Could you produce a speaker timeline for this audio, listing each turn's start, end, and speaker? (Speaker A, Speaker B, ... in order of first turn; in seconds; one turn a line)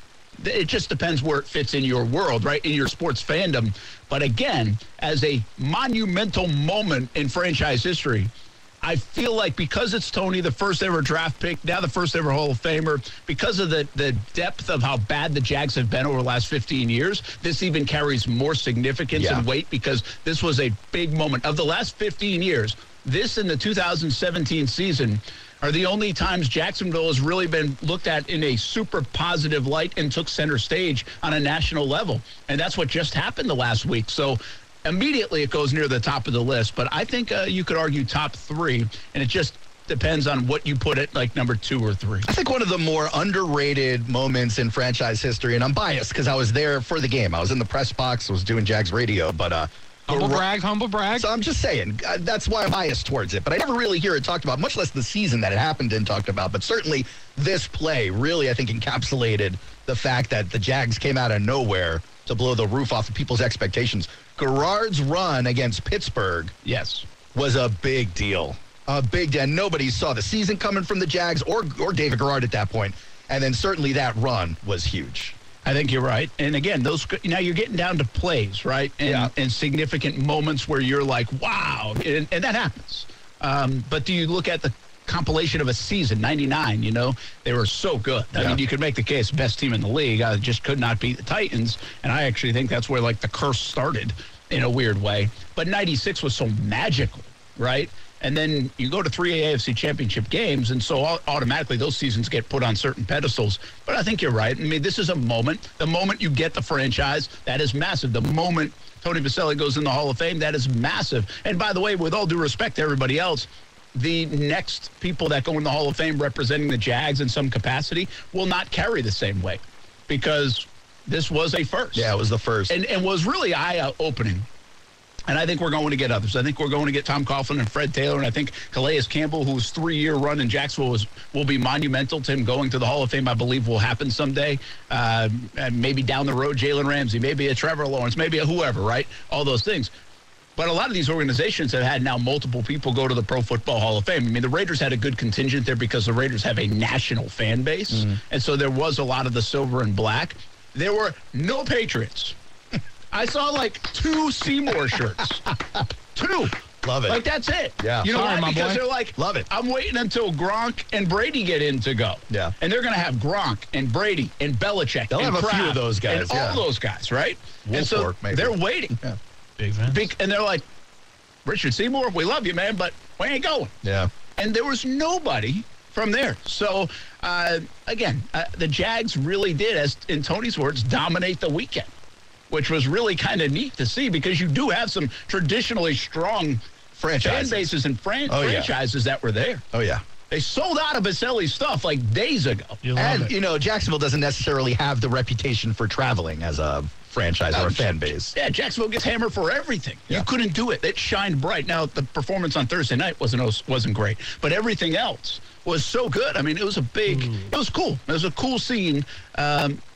Speaker A: 0.4-42.3
Speaker B: 19.1-19.4
Speaker B: 42.2-50.5
Speaker C: 50.1-51.3
Speaker B: 51.1-66.5
Speaker A: 66.6-67.0
Speaker B: 67.3-75.3
Speaker A: 75.6-122.1
Speaker B: 79.0-79.3
Speaker B: 88.3-88.6
Speaker B: 121.9-122.8
Speaker A: 122.7-124.5
Speaker A: 125.3-139.9
Speaker A: 140.6-152.3
Speaker A: 153.1-155.5
Speaker A: 156.1-156.6
Speaker B: 156.8-157.2
Speaker A: 157.1-169.0
Speaker B: 157.8-158.1
Speaker C: 158.0-158.8
Speaker B: 159.2-159.5
Speaker B: 165.1-166.6
Speaker B: 167.7-169.2
Speaker C: 169.6-170.0
Speaker A: 169.9-170.6
Speaker A: 171.4-173.7
Speaker B: 173.8-174.1
Speaker A: 174.4-181.9
Speaker A: 182.5-186.6
Speaker B: 187.0-187.7
Speaker A: 187.2-189.6
Speaker B: 188.3-188.7
Speaker B: 189.7-190.0
Speaker A: 190.3-192.8
Speaker C: 192.8-193.3
Speaker B: 192.9-198.3
Speaker A: 197.5-209.8
Speaker C: 207.1-207.4